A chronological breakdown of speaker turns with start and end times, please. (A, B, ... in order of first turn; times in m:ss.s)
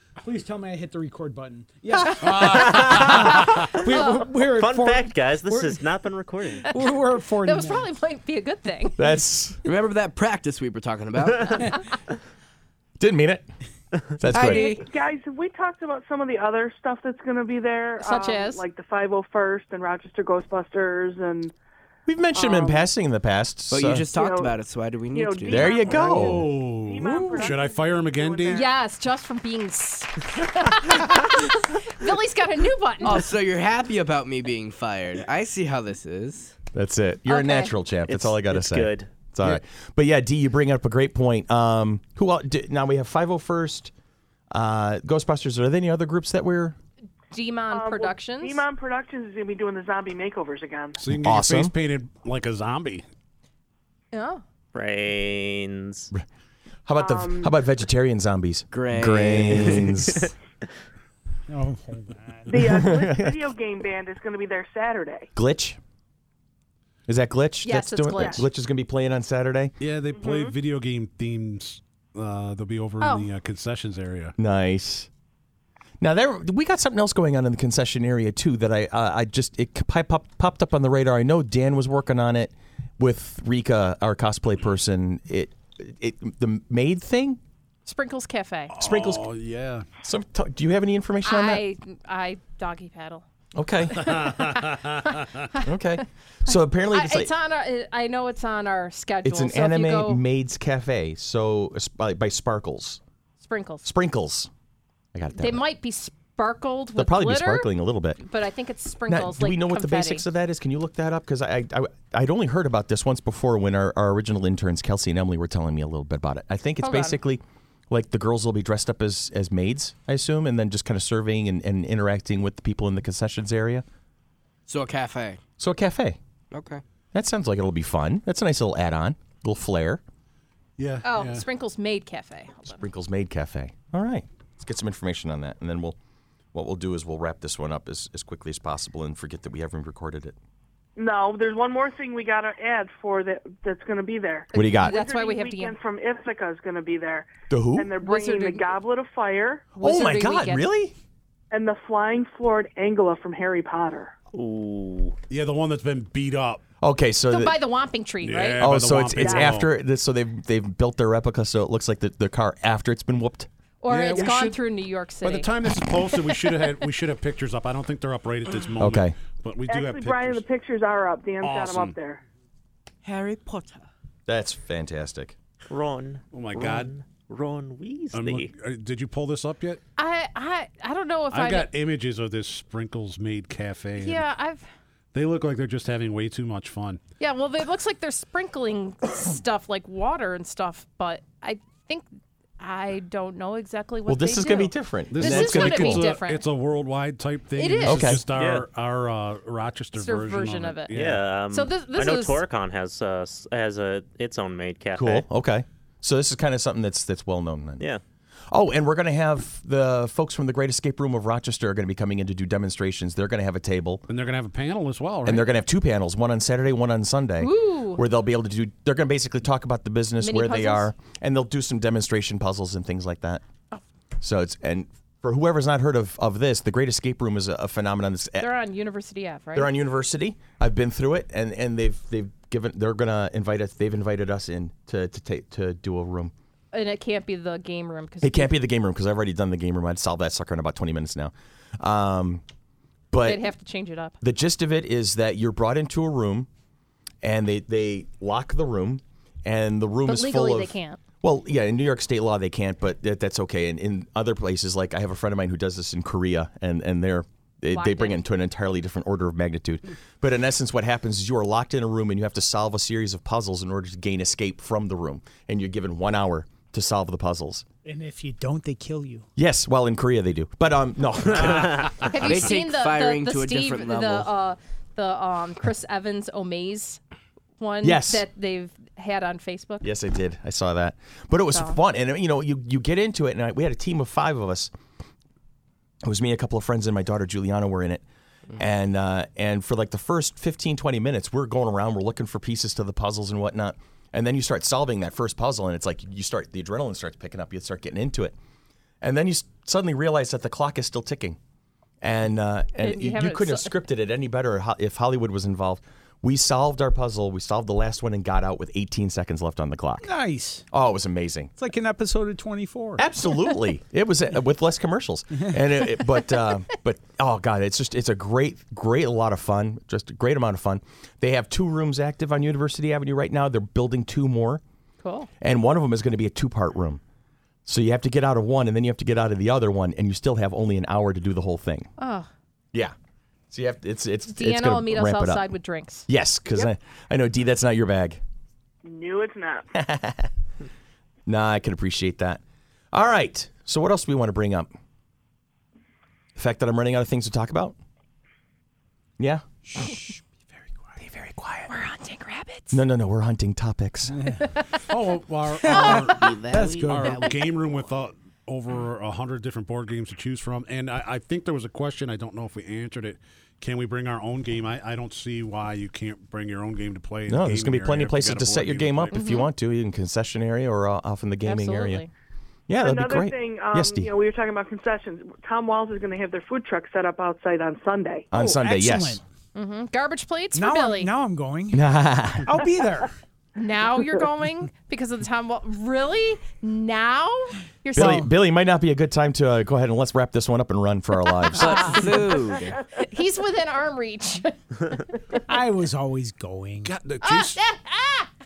0:00.2-0:05.9 A
0:02.2-0:02.8 B
0:02.2-0:04.2 C
0:02.5-0:03.3 D
0:04.4-0:06.8 D
0:06.7-0:07.9 A
0:07.4-0:09.0 C
0:09.0-0:09.6 E
0:09.6-0:11.8 F
0:13.0-0:13.5 E
0:14.2-0:14.7 E
0:14.3-0:14.9 F
0:14.3-0:21.5 G
0:18.0-0:18.6 C
0:22.1-0:24.0 E
0:22.3-0:22.9 G
0:23.7-0:26.2 F
0:24.1-0:24.5 G
0:25.1-0:28.7 G
0:25.5-0:26.4 E
0:26.0-0:28.6 B
0:28.5-0:33.3 C
0:33.0-0:36.6 F
0:36.7-0:43.9 E
0:37.3-0:37.8 C
0:38.1-0:39.1 D
0:44.5-0:46.8 E
0:47.3-0:48.6 C
0:47.7-0:51.0 G
0:51.0-0:53.1 B
0:51.1-0:51.7 E
0:54.1-0:54.4 C
0:54.7-0:56.1 D
0:56.9-1:00.3 E
0:57.0-0:57.5 G
0:58.7-1:00.3 F
1:01.5-1:02.7 A
1:02.5-1:05.3 G
1:02.5-1:03.4 E
1:05.4-1:05.8 E
1:07.1-1:09.7 E
1:07.6-1:08.5 C
1:08.2-1:08.4 G
1:09.8-1:14.4 B
1:10.1-1:10.6 G
1:13.0-1:13.3 C
1:14.4-1:15.1 E
1:16.0-1:27.4 E
1:27.9-1:28.7 C
1:28.7-1:29.9 B
1:28.8-1:29.3 E
1:30.0-1:31.6 E
1:31.2-1:33.2 C
1:33.6-1:34.4 E
1:33.9-1:36.0 C
1:34.0-1:35.5 B
1:35.6-1:37.3 E
1:36.9-1:40.2 C
1:39.2-1:43.0 E
1:43.4-1:43.9 C
1:43.8-1:44.5 E
1:45.1-1:45.6 E
1:45.4-1:50.3 C
1:47.0-1:48.2 E
1:49.1-2:03.8 E
1:56.8-1:57.2 C
2:04.7-2:05.4 F
2:05.6-2:06.2 E
2:06.5-2:06.8 F
2:07.1-2:10.0 E
2:10.8-2:11.5 B
2:11.0-2:12.9 C
2:12.8-2:16.0 E
2:16.5-2:20.4 E
2:21.0-2:29.7 G
2:24.5-2:25.8 C
2:24.5-2:25.0 E
2:27.5-2:28.0 E
2:28.0-2:28.7 C
2:29.8-2:30.7 C
2:29.8-2:30.9 E
2:31.5-2:34.2 G
2:34.3-2:35.2 D
2:35.3-2:36.6 B
2:36.8-2:37.6 E
2:37.3-2:38.6 C
2:38.2-2:39.7 B
2:38.6-2:43.5 E
2:43.8-2:46.6 C
2:43.9-2:44.6 B
2:45.2-2:50.4 B
2:48.8-2:49.2 E
2:49.7-2:52.2 G
2:51.4-2:52.0 B
2:53.0-2:53.9 F
2:54.3-2:55.4 E
2:55.7-2:58.5 D
2:56.3-2:56.9 B
2:58.1-2:59.8 B
3:00.0-3:01.7 C
3:01.3-3:04.2 B
3:04.0-3:04.7 C
3:05.1-3:07.0 B
3:07.2-3:12.1 C
3:12.6-3:16.5 C
3:14.1-3:16.1 E
3:15.1-3:21.2 B
3:17.6-3:18.2 C
3:17.9-3:18.2 E
3:18.3-3:18.7 D
3:20.0-3:21.0 C
3:20.9-3:25.2 D
3:21.5-3:22.4 C
3:25.0-3:27.9 E
3:28.5-3:34.0 E
3:34.1-3:35.5 B
3:35.2-3:43.4 E
3:37.4-3:38.0 C
3:40.2-3:40.9 C
3:44.2-3:48.5 E
3:48.4-3:49.7 C
3:49.6-3:56.3 E
3:56.7-3:58.5 C
3:58.2-4:02.4 E
4:03.1-4:03.4 E
4:03.2-4:04.1 C
4:04.2-4:06.5 E
4:07.2-4:27.6 E
4:10.1-4:11.0 C
4:17.7-4:18.2 C
4:27.8-4:29.2 A
4:29.4-4:32.1 E
4:31.4-4:31.8 B
4:31.4-4:31.9 D
4:32.0-4:37.0 C
4:32.2-4:34.3 F
4:37.6-4:39.9 C
4:37.8-4:38.2 E
4:39.8-4:44.7 E
4:46.0-4:48.0 E
4:48.6-4:58.4 E
4:59.0-5:01.4 E
5:02.0-5:10.1 E
5:02.8-5:03.8 C
5:10.0-5:10.6 A
5:10.7-5:11.5 E
5:11.6-5:13.0 A
5:13.0-5:24.6 E
5:25.0-5:25.3 C
5:25.4-5:27.0 E
5:27.7-5:31.9 E
5:32.0-5:32.3 C
5:33.5-5:35.5 E
5:34.3-5:36.1 C
5:36.1-5:38.2 E
5:38.8-5:39.7 G
5:39.7-5:40.3 E
5:41.3-5:42.4 E
5:42.9-5:44.7 E
5:46.4-5:47.8 E
5:49.2-5:50.0 E
5:49.7-5:50.2 A
5:51.0-5:51.7 E
5:51.7-5:52.8 C
5:52.7-5:54.2 E
5:54.1-5:57.3 A
5:54.4-5:54.7 C
5:54.9-6:09.2 B
5:55.7-5:56.2 C
5:55.7-5:57.4 F
6:07.3-6:12.0 E
6:09.1-6:09.5 C
6:11.4-6:12.1 C
6:12.7-6:14.1 E
6:12.8-6:18.3 G
6:18.3-6:19.2 E
6:18.3-6:19.2 A
6:19.6-6:21.1 C
6:20.5-6:21.9 A
6:21.7-6:22.6 E
6:22.4-6:23.1 A
6:23.6-6:28.2 C
6:27.9-6:28.3 A
6:28.0-6:32.0 E
6:31.3-6:32.4 C
6:31.5-6:32.8 F
6:33.0-6:35.0 C
6:35.5-6:37.0 A
6:36.8-6:37.6 B
6:37.2-6:38.3 C